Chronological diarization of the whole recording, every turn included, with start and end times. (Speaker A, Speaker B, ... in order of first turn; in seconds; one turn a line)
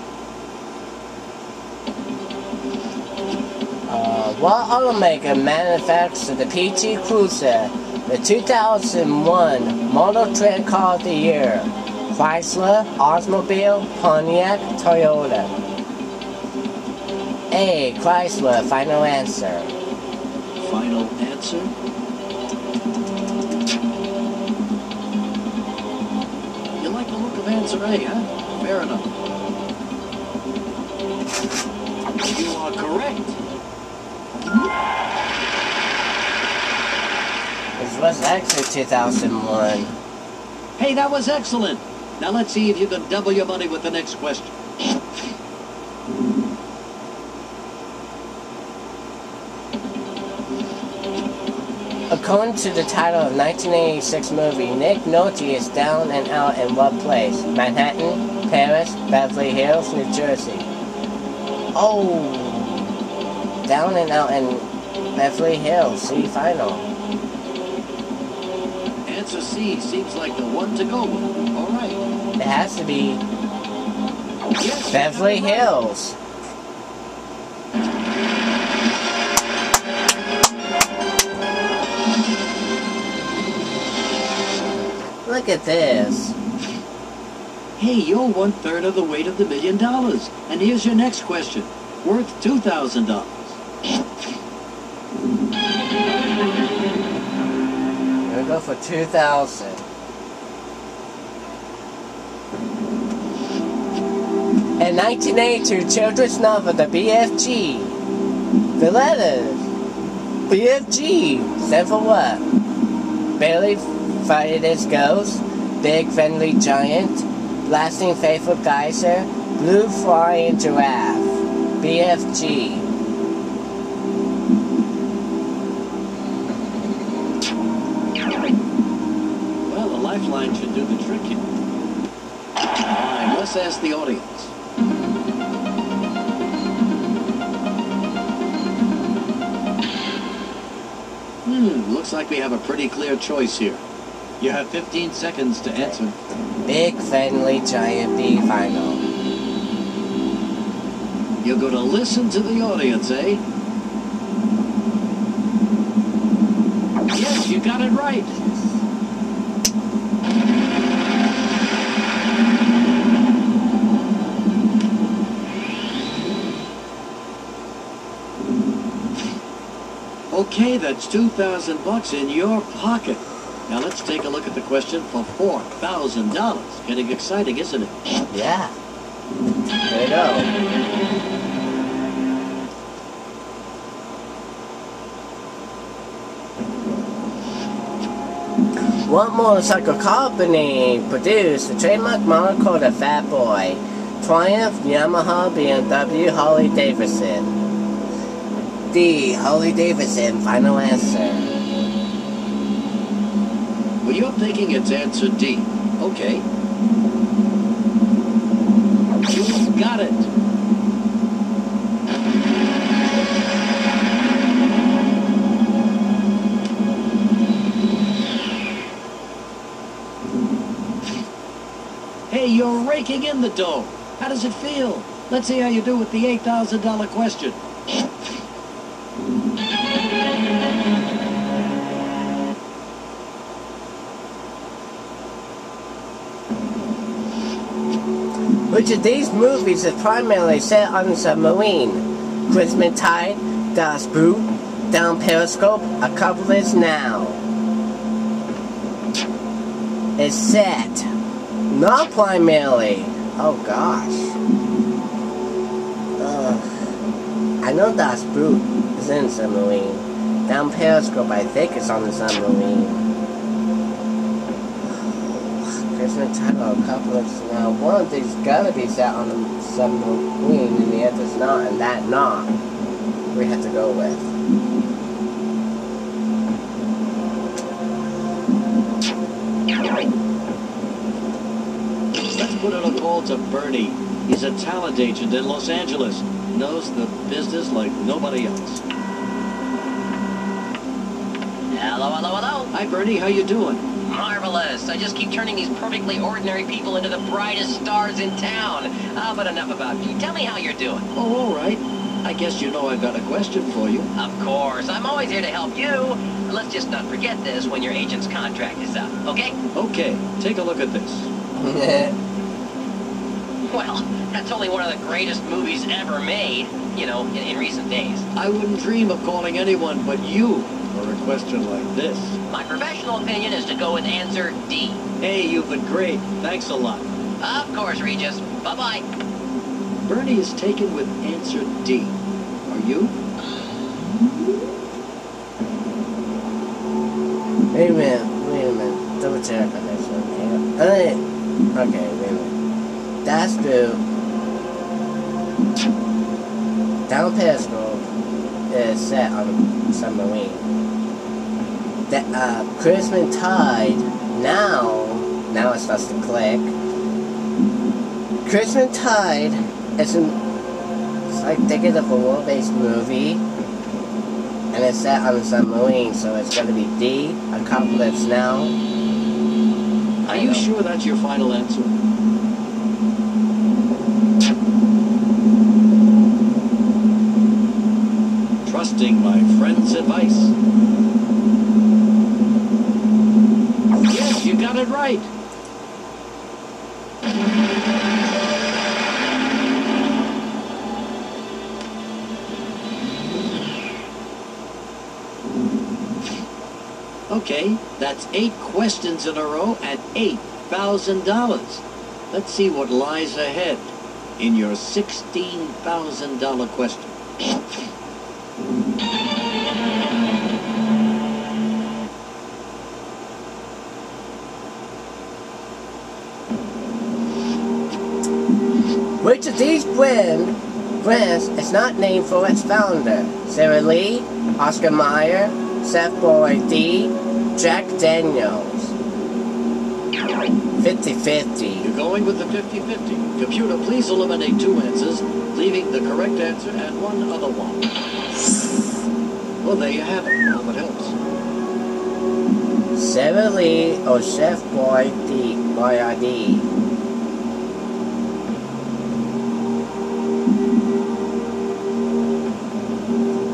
Speaker A: 3.9-15.6
Speaker A: 17.5-19.7
Speaker B: 20.6-21.7
Speaker B: 26.8-29.1
Speaker B: 32.2-33.4
Speaker A: 37.8-39.9
Speaker B: 40.8-44.6
Speaker A: 52.1-60.7
Speaker A: 61.7-62.9
Speaker A: 63.6-66.9
Speaker B: 69.0-72.0
Speaker A: 72.4-73.2
Speaker B: 74.5-75.7
Speaker A: 74.9-76.2
Speaker A: 85.2-86.3
Speaker B: 87.8-93.6
Speaker A: 98.2-99.8
Speaker A: 104.8-108.0
Speaker A: 108.8-109.7
Speaker A: 110.5-112.4
Speaker A: 113.4-122.9
Speaker B: 129.6-131.5
Speaker B: 132.8-134.5
Speaker B: 141.4-143.8
Speaker B: 144.4-146.2
Speaker A: 146.6-149.0
Speaker B: 151.4-153.4
Speaker B: 157.1-158.3
Speaker A: 158.3-158.8
Speaker B: 170.3-178.0
Speaker A: 178.3-178.7
Speaker A: 179.9-180.5
Speaker A: 189.1-197.5
Speaker A: 198.9-201.6
Speaker B: 204.0-206.4
Speaker B: 209.2-210.3
Speaker B: 222.3-227.6
Speaker A: 238.7-247.4
Speaker A: 250.2-251.1
Speaker A: 251.7-254.4
Speaker A: 256.2-256.7
Speaker A: 257.6-263.1
Speaker A: 264.8-272.5
Speaker A: 273.3-274.3
Speaker B: 282.2-288.8
Speaker C: 291.7-292.7
Speaker B: 292.7-293.9
Speaker C: 294.0-301.0
Speaker B: 301.1-304.1
Speaker C: 304.1-309.6
Speaker B: 309.7-311.3
Speaker A: 311.6-312.1
Speaker C: 313.7-318.2
Speaker B: 318.4-322.4
Speaker C: 322.5-325.0
Speaker B: 325.2-327.1
Speaker C: 327.4-329.0
Speaker B: 330.0-333.1
Speaker A: 337.7-341.2
Speaker A: 341.7-342.5
Speaker A: 343.2-344.0
Speaker A: 347.1-348.1
Speaker A: 348.7-350.7
Speaker A: 352.1-356.8
Speaker A: 358.4-360.4
Speaker A: 361.3-363.4
Speaker A: 364.7-368.8
Speaker A: 370.2-370.7
Speaker B: 370.3-372.0
Speaker B: 378.6-380.5
Speaker B: 384.1-385.3
Speaker B: 397.3-407.2
Speaker A: 419.2-428.9
Speaker A: 430.8-431.9
Speaker B: 431.8-437.9
Speaker B: 439.6-441.1
Speaker A: 442.9-446.7